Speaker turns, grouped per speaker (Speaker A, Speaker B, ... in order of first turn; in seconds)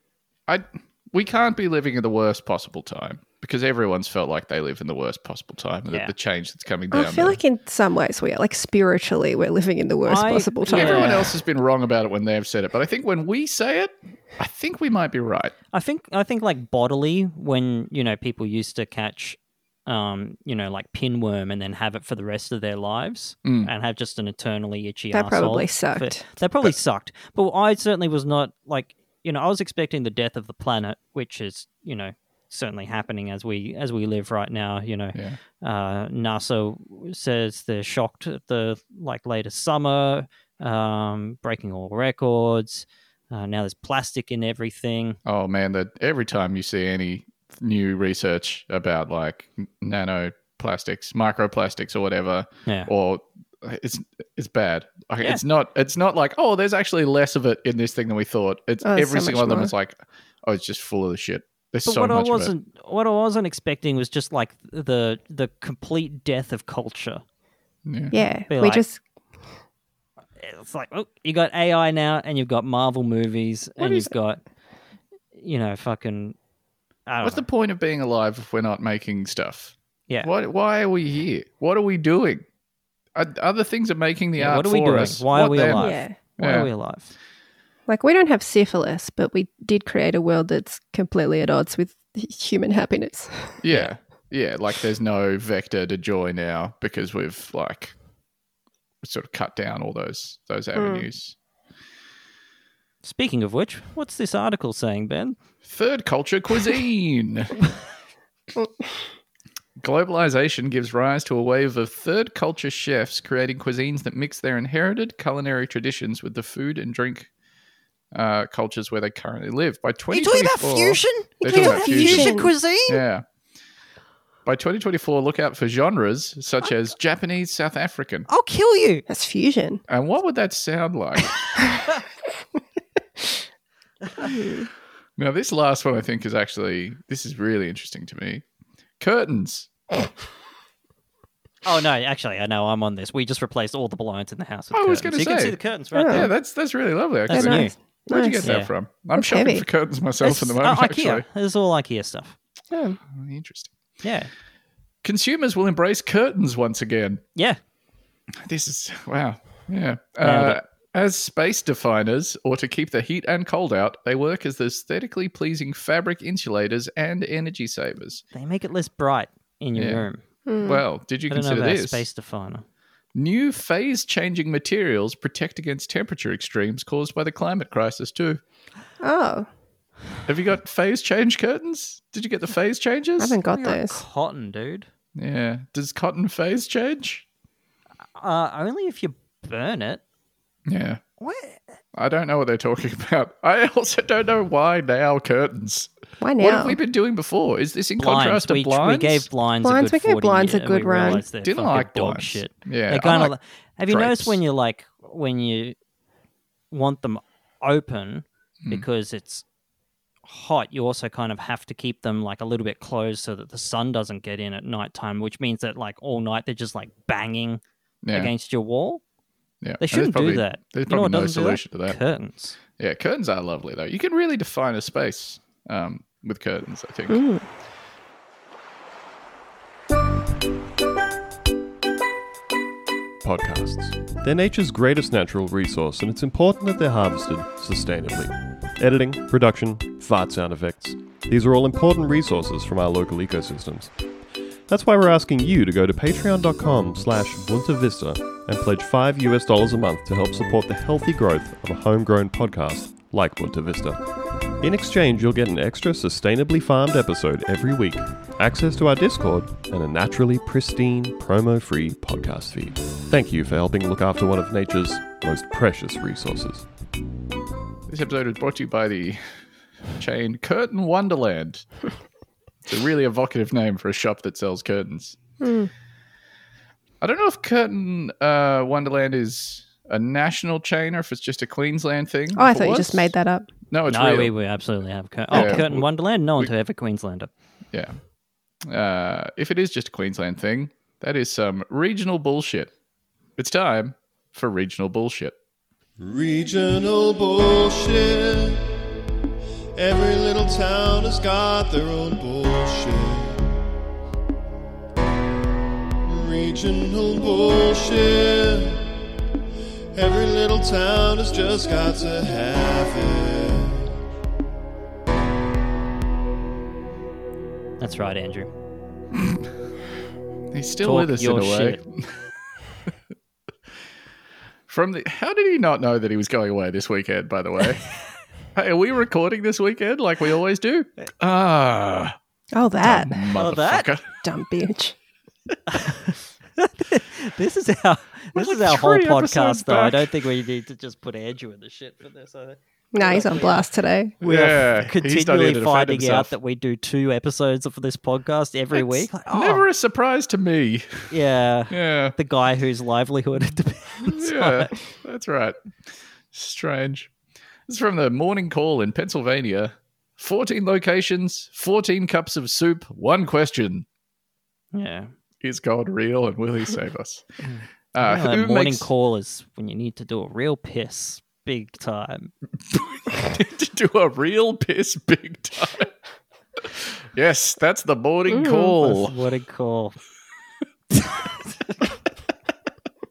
Speaker A: 0.5-7.4, 10.7-15.5, 23.4-23.7, 45.2-62.5, 67.9-68.1, 77.2-82.4, 83.1-86.7, 93.6-97.9, 99.0-101.4, 105.6-107.7, 109.8-117.3, 118.1-122.4, 122.9-123.2, 124.5-128.3, 129.9-131.3, 135.2-138.4, 139.0-139.7, 144.7-145.6, 146.1-151.2, 153.1-153.7, 155.0-157.2, 158.4-168.2, 169.8-170.1, 170.6-172.1, 173.1-178.4, 180.2-183.4, 185.2-187.2, 190.7-191.0, 191.9-199.3, 201.3-203.3, 203.9-204.4, 218.0-218.3, 219.6-222.0, 222.8-227.2, 267.9-269.2, 270.0-271.7, 272.6-275.2, 277.0-283.1, 283.7-284.3, 285.3-286.5, 288.6-292.7, 293.4-295.4, 319.1-319.5, 320.5-322.1, 324.7-327.9, 328.5-332.1, 332.8-334.0, 338.4-340.2, 344.2-346.3, 348.7-351.1, 351.7-352.1, 354.1-355.6, 356.3-357.1, 357.7-363.9, 365.4-367.2, 367.9-368.9, 372.7-375.9, 376.6-379.1
Speaker B: 6.9-11.3, 25.1-26.2, 58.8-59.7, 68.1-69.0, 73.8-74.1, 85.8-86.2, 87.9-93.6, 100.8-101.1, 121.4-122.5, 129.1-129.8, 134.2-134.7, 145.9-146.3, 147.3-148.5, 149.1-149.7, 152.7-153.0, 170.5-170.8, 179.0-179.5, 183.2-184.0, 196.2-196.8, 199.6-201.2, 227.1-227.4, 275.4-275.7, 282.4-283.5, 285.3-285.6, 332.5-333.4, 334.2-334.9, 342.9-344.1, 378.3-378.7
Speaker C: 10.1-11.2, 15.7-45.2, 61.9-67.2, 68.5-68.8, 70.4-74.4, 75.3-76.4, 77.1-77.5, 84.4-87.1, 103.0-105.4, 120.1-123.0, 128.3-129.0, 141.7-146.3, 147.3-147.8, 148.4-148.7, 150.2-152.3, 154.0-154.3, 160.2-160.6, 168.3-170.2, 171.3-172.7, 183.5-184.9, 188.2-190.0, 191.2-191.8, 198.0-205.8, 206.7-209.4, 210.2-217.6, 218.1-219.0, 219.8-222.6, 283.9-287.3, 317.8-318.5, 320.8-321.8, 333.4-333.9, 335.7-343.7, 344.2-349.6, 351.1-354.7, 364.7-365.1, 367.4-372.3, 378.8-380.0
Speaker D: 233.2-243.9, 244.7-254.0, 254.6-266.6
Speaker E: 296.0-298.6, 299.8-303.5, 306.0-308.9, 309.9-314.0